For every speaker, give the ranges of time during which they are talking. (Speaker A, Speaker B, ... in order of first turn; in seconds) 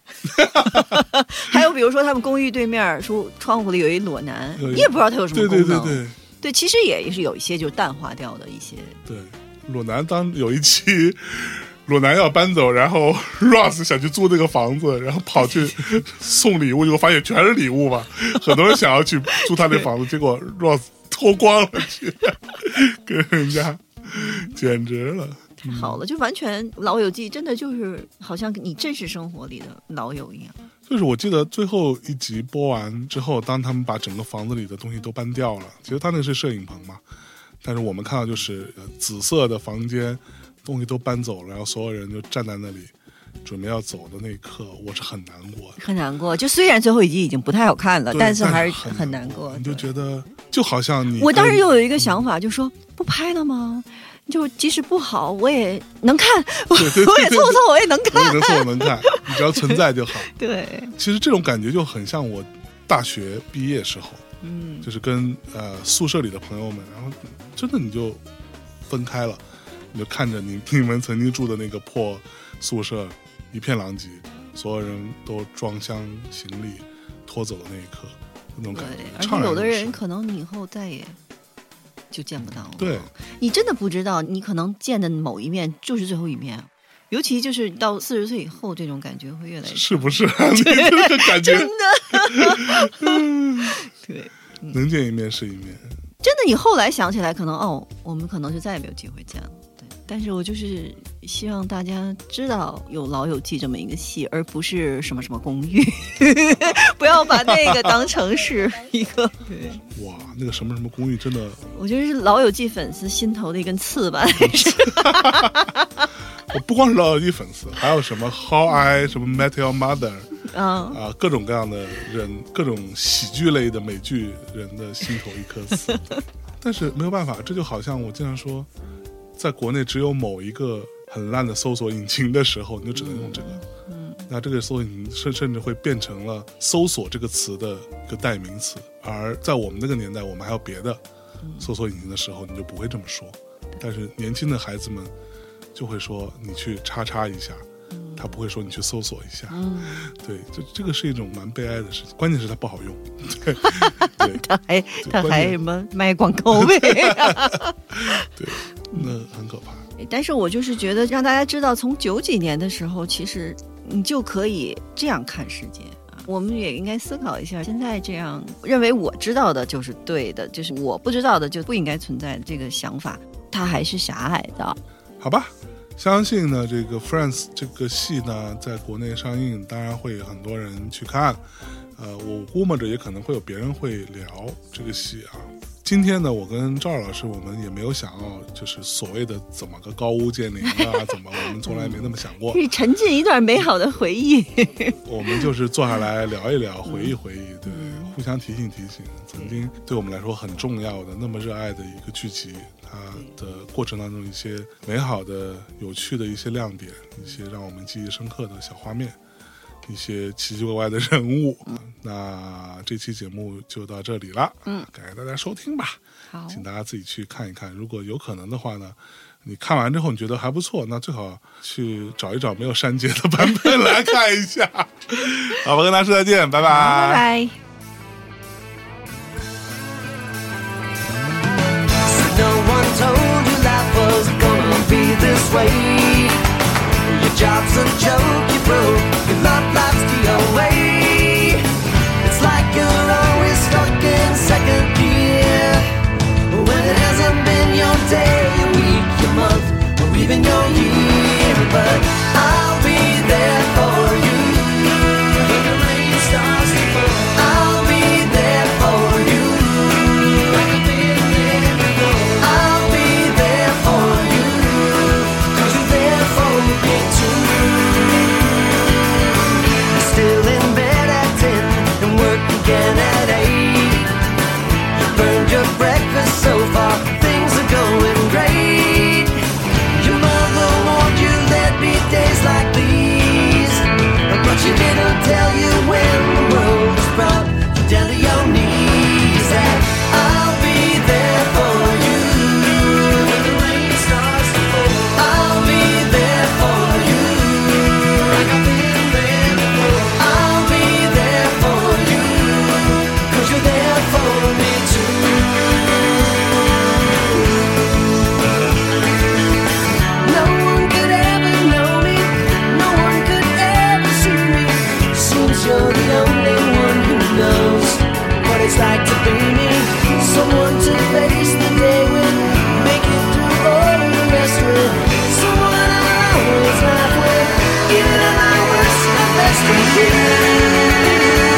Speaker A: 0.2-1.0, 4.6-6.2, 9.1-26.0, 30.9-37.0, 37.6-45.8, 48.1-52.2, 56.7-60.3, 61.0-64.2, 64.8-68.2, 68.9-69.4, 69.9-80.0, 82.8-83.1, 89.7-93.8, 94.7-95.9, 109.9-111.7, 114.4-115.5, 116.5-120.4, 120.9-128.7, 129.4-133.6, 134.3-141.0, 141.6-145.1, 145.7-154.4, 155.0-155.6, 156.5-159.9, 175.2-192.6, 195.1-209.2, 209.8-216.0, 216.5-227.3
Speaker B: 0.4-9.0, 24.1-24.5, 25.6-30.6, 45.8-49.9, 51.1-60.9, 64.4-64.9, 78.7-81.2, 82.1-94.8, 96.2-109.8, 111.7-116.1, 120.5-121.0, 125.9-126.2, 132.9-134.3, 141.4-141.7, 147.9-148.2, 149.5-150.1, 153.6-158.2, 160.0-174.8, 190.6-195.4, 196.9-198.2, 216.3-216.6, 226.6-227.6
Speaker C: 232.0-236.4, 237.0-241.7, 242.2-245.9, 246.5-268.3, 269.8-274.1, 274.9-279.4, 279.9-305.9, 307.0-307.7, 310.2-331.2